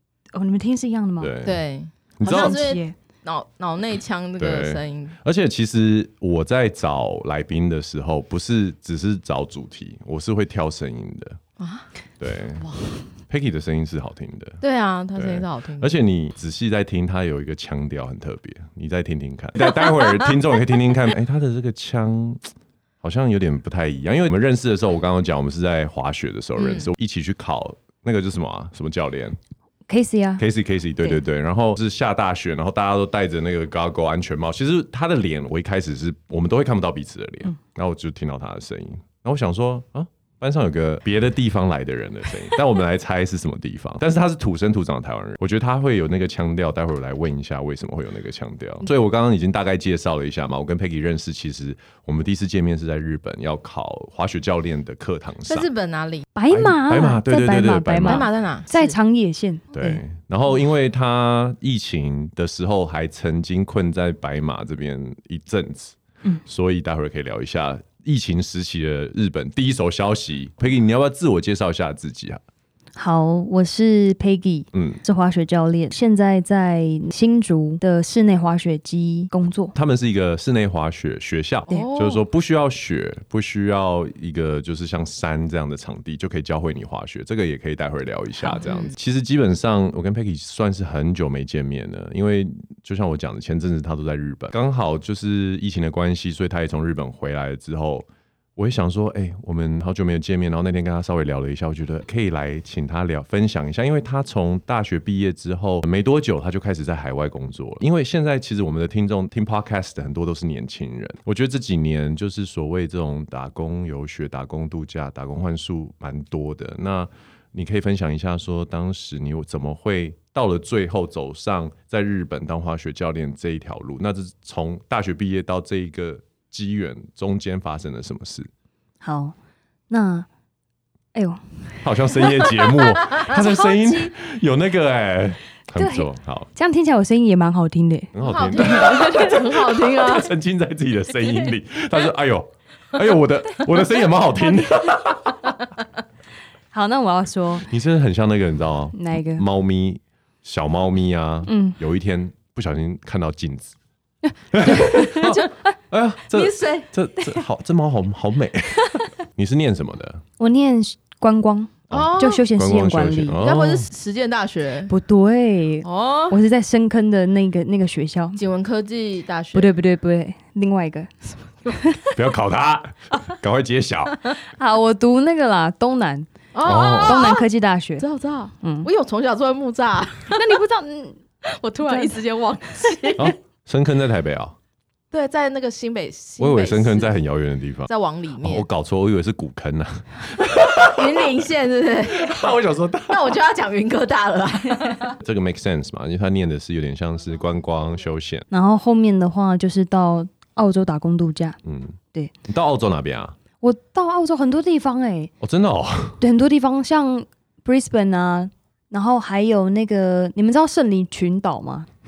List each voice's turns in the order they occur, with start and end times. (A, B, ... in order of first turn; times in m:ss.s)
0:00.3-0:01.4 A
0:01.2-0:01.6 B
0:01.4-0:05.2 C
0:02.2-0:02.7 B
0:02.2-0:02.9 A
0:04.4-0:11.4 B
0:11.6-0:11.9 C
0:12.2-0:12.7 B
0:12.6-0:13.0 C
0:13.3-0:14.6 B
0:14.6-0:15.9 C
0:15.2-0:22.5 B
0:19.7-0:20.4 C
0:23.0-0:29.4 B
0:26.6-0:26.9 C
0:29.9-0:30.5 A
0:30.4-0:55.7 B
0:55.5-0:56.3 C
0:56.4-1:00.0 A
0:56.5-0:58.3 B
0:58.0-0:59.0 C
0:59.7-1:12.4 B
1:13.0-1:19.7 A
1:14.7-1:15.0 B
1:19.7-2:08.5 B
1:21.7-1:22.2 C
1:28.6-1:28.9 C
2:09.0-2:09.4 A
2:09.9-2:10.3 A
2:11.1-2:14.1 A
2:11.8-2:16.5 B
2:15.8-2:19.4 A
2:18.1-2:25.5 B
2:18.2-2:20.3 C
2:26.7-2:27.7 A
2:27.7-2:33.7 B
2:28.9-2:29.4 A
2:31.5-2:31.8 A
2:34.3-2:35.6 A
2:34.5-2:40.2 B
2:36.3-2:36.8 C
2:40.4-2:43.4 A
2:41.9-2:43.9 B
2:41.9-2:42.4 C
2:43.4-2:44.9 C
2:44.9-2:48.4 A
2:45.8-2:46.4 C
2:48.4-2:49.7 C
2:49.5-2:51.1 A
2:51.7-2:52.1 A
2:52.1-2:54.2 B
2:54.4-2:56.3 A
2:56.5-2:57.5 C
2:56.6-2:57.3 B
2:57.0-2:58.0 A
2:58.0-3:00.6 C
2:58.6-2:58.9 A
3:00.3-3:01.2 A
3:01.4-3:03.3 C
3:01.8-3:02.2 A
3:03.2-3:04.6 B
3:05.1-3:07.2 C
3:06.4-3:11.3 B
3:07.9-3:08.7 C
3:10.8-3:12.5 C
3:12.1-3:13.4 B
3:13.1-3:15.2 C
3:15.2-3:18.5 B
3:18.5-3:21.6 A
3:21.6-3:22.0 B
3:22.5-3:23.4 B
3:23.6-3:25.3 A
3:25.4-3:26.2 B
3:26.2-3:31.9 A